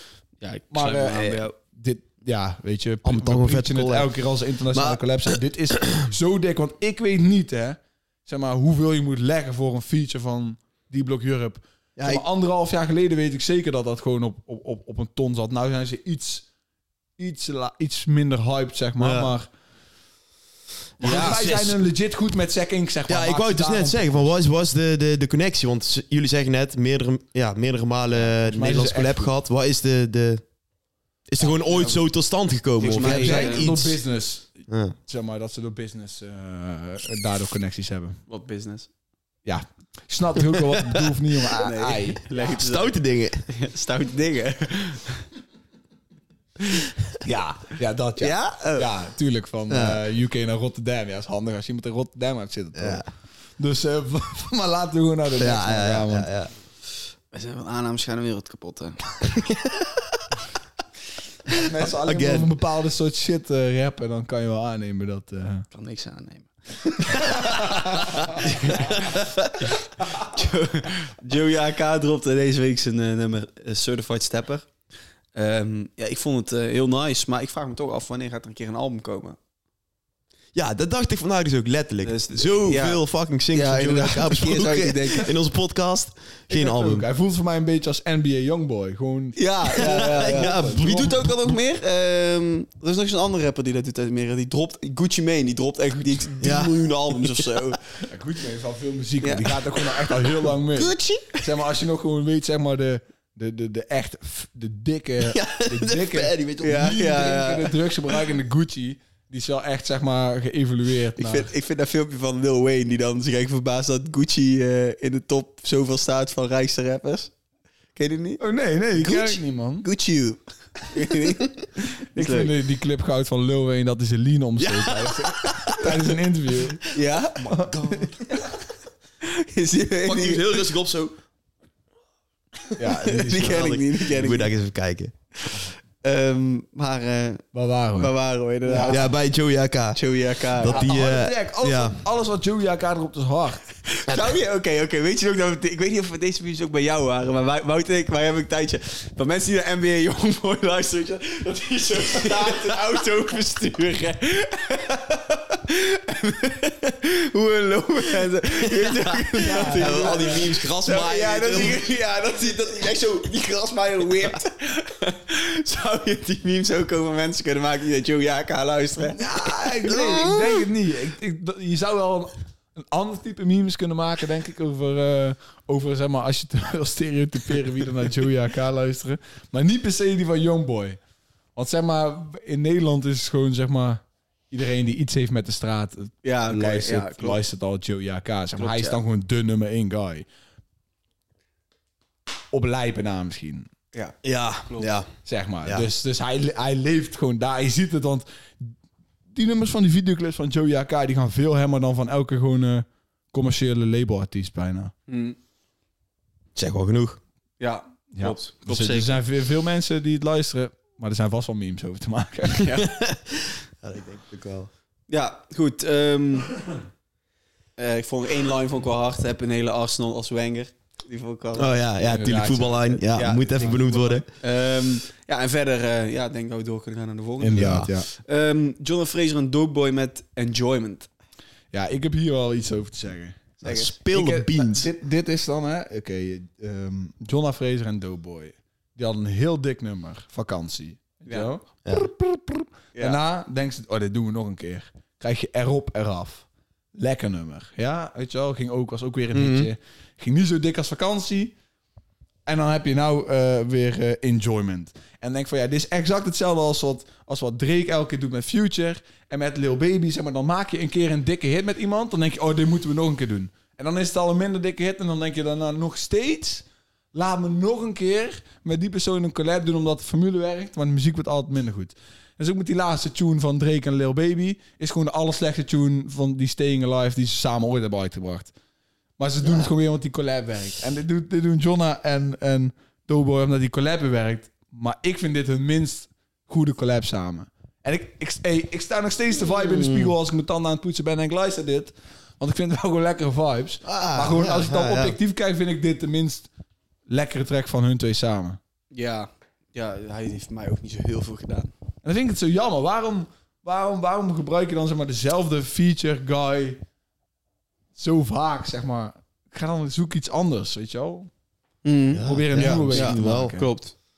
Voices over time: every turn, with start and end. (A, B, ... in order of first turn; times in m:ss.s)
0:00.4-0:01.5 A
0:00.7-0:16.5 B
0:03.0-0:04.1 C
0:04.7-0:06.1 C
0:12.0-0:12.2 C
0:17.2-0:19.5 B
0:19.0-0:19.3 C
0:21.0-0:21.8 C
0:21.0-0:24.2 B
0:23.1-0:30.4 C
0:28.2-0:29.3 B
0:31.3-0:34.0 C
0:31.4-0:32.0 A
0:32.8-0:33.8 A
0:32.9-0:38.2 B
0:34.7-0:35.0 C
0:38.3-0:38.9 A
0:39.4-0:42.2 B
0:41.6-0:45.2 A
0:42.4-0:43.5 C
0:47.2-0:53.1 B
0:48.2-0:48.9 A
0:49.7-0:50.0 C
0:52.8-0:53.0 C
0:53.6-0:56.3 B
0:55.4-0:56.5 C
0:57.3-0:59.0 A
0:59.3-1:00.2 C
1:01.5-1:02.5 C
1:01.5-1:05.6 B
1:05.7-1:07.6 A
1:07.2-1:08.8 B
1:08.0-1:09.5 C
1:08.4-1:14.7 A
1:15.3-1:19.4 A
1:20.5-1:27.0 C
1:22.0-1:25.3 A
1:26.5-1:30.9 B
1:29.4-1:37.8 A
1:29.8-1:31.5 C
1:36.4-1:37.4 C
1:38.0-1:51.5 B
1:39.2-1:40.1 A
1:40.8-1:41.4 A
1:45.2-1:47.3 C
1:46.6-1:47.7 A
1:51.2-1:57.3 A
1:58.0-1:58.4 A
1:58.4-1:59.9 B
1:58.9-2:02.5 A
2:02.1-2:08.0 B
2:04.6-2:05.9 C
2:06.9-2:07.6 A
2:07.6-2:08.2 C
2:09.2-2:10.6 A
2:10.0-2:11.2 C
2:12.8-2:13.8 B
2:12.9-2:14.5 A
2:13.2-2:15.1 C
2:15.5-2:17.5 A
2:17.5-2:18.1 B
2:18.0-2:19.1 A
2:18.7-2:19.0 B
2:18.8-2:22.0 C
2:20.0-2:21.0 A
2:20.6-2:23.8 B
2:23.9-2:49.2 A
2:38.8-2:41.8 C
2:39.4-2:40.5 B
2:49.1-3:01.0 B
2:49.9-2:50.6 C
3:01.6-3:10.2 B
3:06.2-3:07.4 A
3:08.6-3:09.0 A
3:12.5-3:13.7 B
3:13.9-3:14.9 A
3:14.2-3:15.1 C
3:15.2-3:18.7 B
3:19.3-3:24.9 B
3:25.1-3:25.4 A
3:26.5-3:27.2 C
3:27.6-3:29.2 A
3:28.2-3:32.8 B
3:32.6-3:32.9 A
3:32.9-3:34.7 C
3:35.1-3:36.5 A
3:37.8-3:41.7 A
3:41.5-3:44.2 C
3:42.0-3:44.2 B
3:43.2-3:51.1 A
3:47.4-3:48.1 B
3:47.5-3:47.9 C
3:51.7-4:11.6 B
3:53.6-3:54.9 C
3:53.6-3:53.9 A
4:09.3-4:09.7 C
4:12.5-4:38.5 B
4:39.2-4:56.5 B
4:49.5-4:50.1 C
4:53.8-4:55.2 C
4:57.1-4:58.6 B
4:58.9-5:01.7 A
5:02.0-5:06.8 B
5:08.0-5:11.3 B
5:11.8-5:13.9 A
5:12.1-5:13.6 C
5:12.2-5:13.7 B